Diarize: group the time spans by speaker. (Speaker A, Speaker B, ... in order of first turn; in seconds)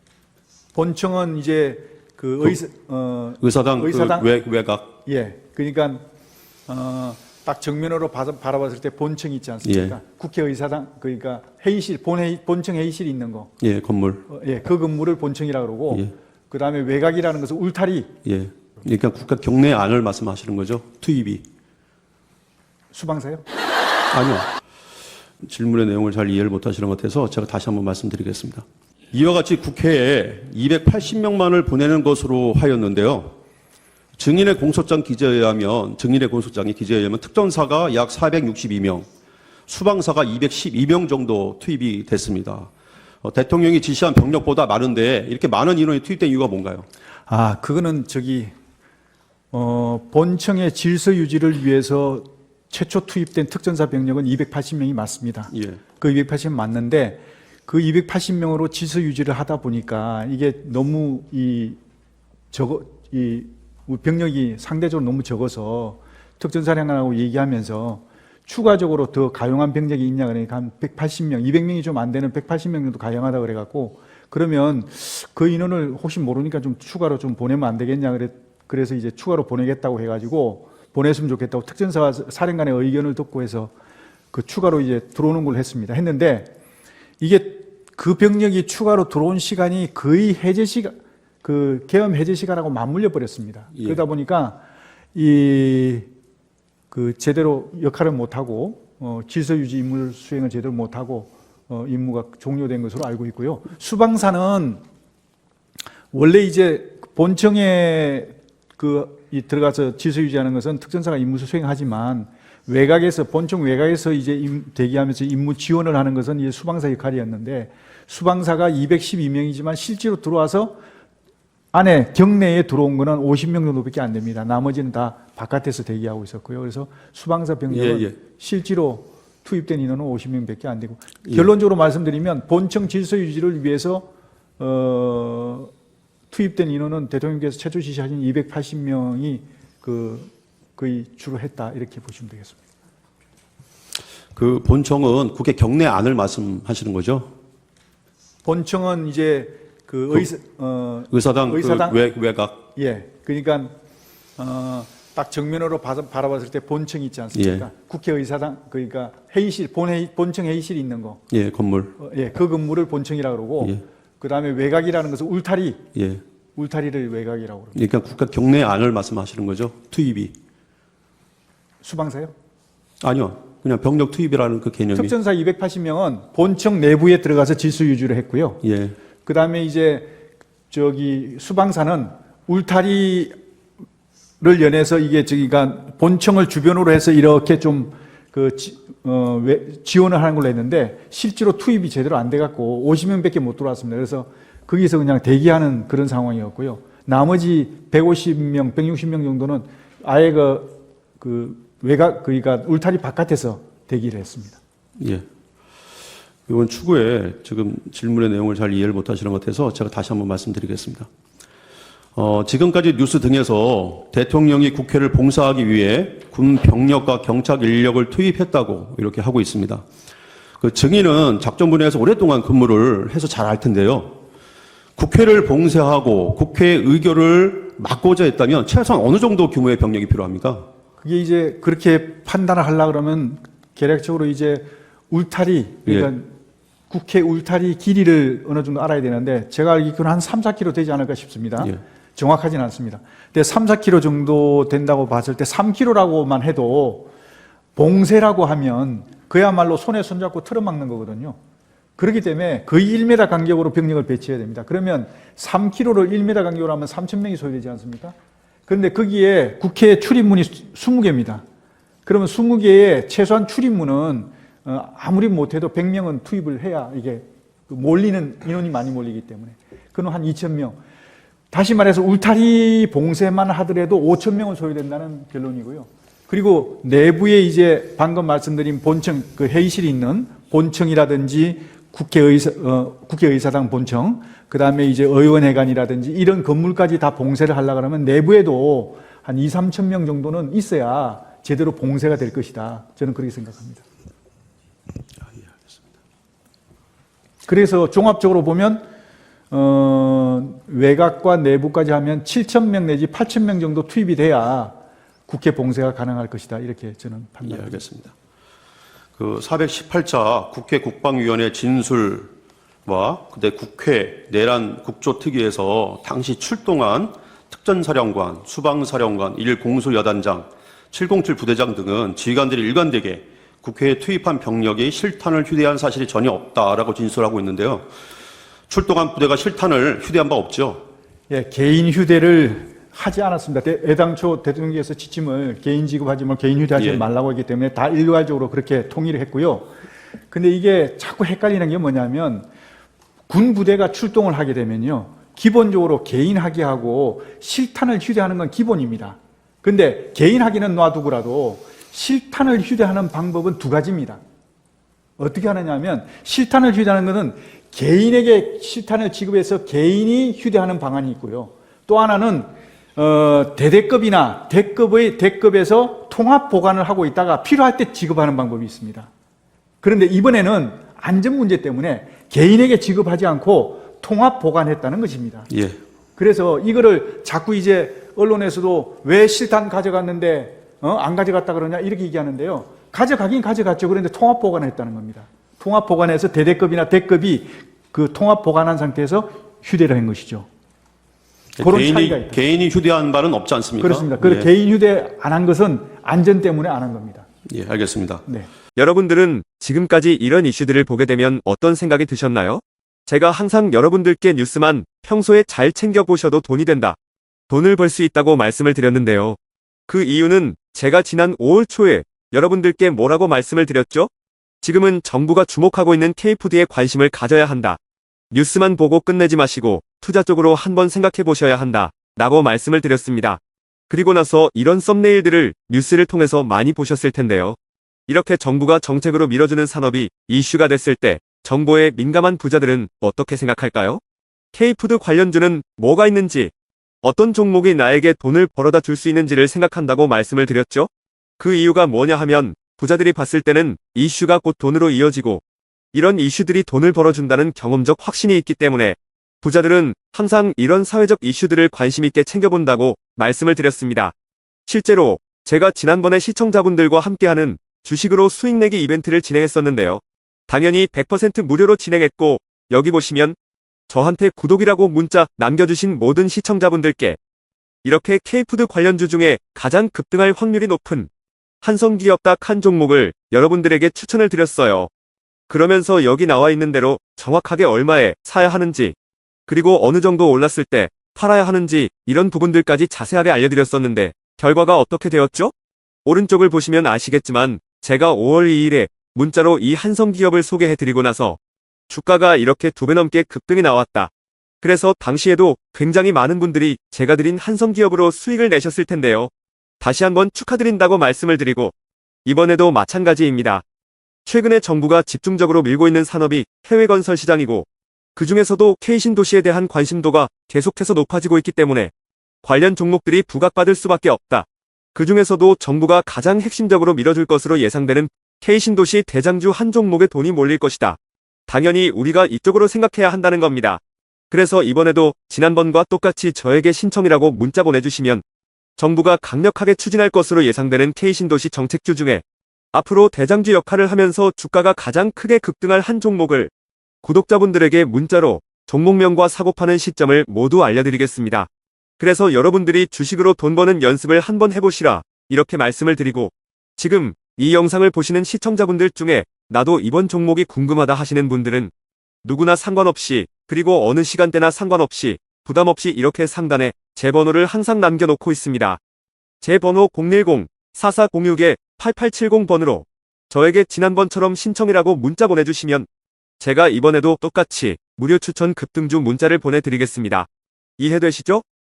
Speaker A: 0.8-4.3, 5.1-6.0, 6.7-13.5, 14.3-18.1, 22.9-23.4, 47.3-48.5, 49.5-61.8, 62.5-83.7, 84.3-86.5, 87.2-94.6, 95.1-96.1, 96.9-104.8, 106.1-120.8, 121.7-134.1, 134.6-135.7, 136.3-142.6, 148.4-152.0, 152.8-153.8, 154.4-161.2, 162.0-165.8, 166.6-167.8, 171.8-172.3, 174.9-178.6, 179.2-180.1, 180.7-183.3, 184.4-204.6, 231.0-236.3, 236.9-247.1, 247.8-251.4, 252.0-258.1, 258.7-261.4, 262.1-270.8, 271.5-293.8, 297.5-298.9, 299.5-304.8, 305.3-307.8, 331.3-339.7, 340.3-342.5, 343.3-354.2, 355.2-369.1, 369.8-375.5, 376.2-390.5, 391.6-392.4, 393.8-397.3
Speaker B: 3.4-5.0, 9.7-9.9, 13.6-14.3, 18.2-21.4, 24.1-24.5, 25.4-33.4, 34.2-39.1, 39.7-42.7, 43.2-46.9, 55.5-55.8, 127.7-128.2, 144.3-147.3, 151.1-152.7, 157.3-157.7, 161.3-162.0, 165.9-166.2, 167.7-170.3, 173.0-175.1, 178.6-178.9, 205.0-205.2, 206.5-211.1, 212.2-219.8, 220.6-224.2, 225.0-230.7, 307.5-308.1, 309.2-312.3, 312.9-327.9, 328.7-330.9, 336.8-337.0, 375.5-375.8, 391.6-394.5, 397.5-398.2
Speaker C: 398.8-407.0, 407.5-409.4, 409.9-414.1, 414.6-417.8, 418.3-427.6, 428.1-434.0, 434.5-436.5, 437.0-445.4, 445.9-454.1, 454.7-463.4, 463.9-467.2, 467.8-471.1, 471.6-474.9, 475.5-478.9, 479.5-485.5, 486.1-491.4, 491.9-494.1, 494.6-501.7, 502.2-503.6, 504.3-511.9, 512.4-528.2, 528.8-536.5, 537.0-551.7, 552.2-558.8, 559.4-565.9, 566.4-570.3, 570.8-571.4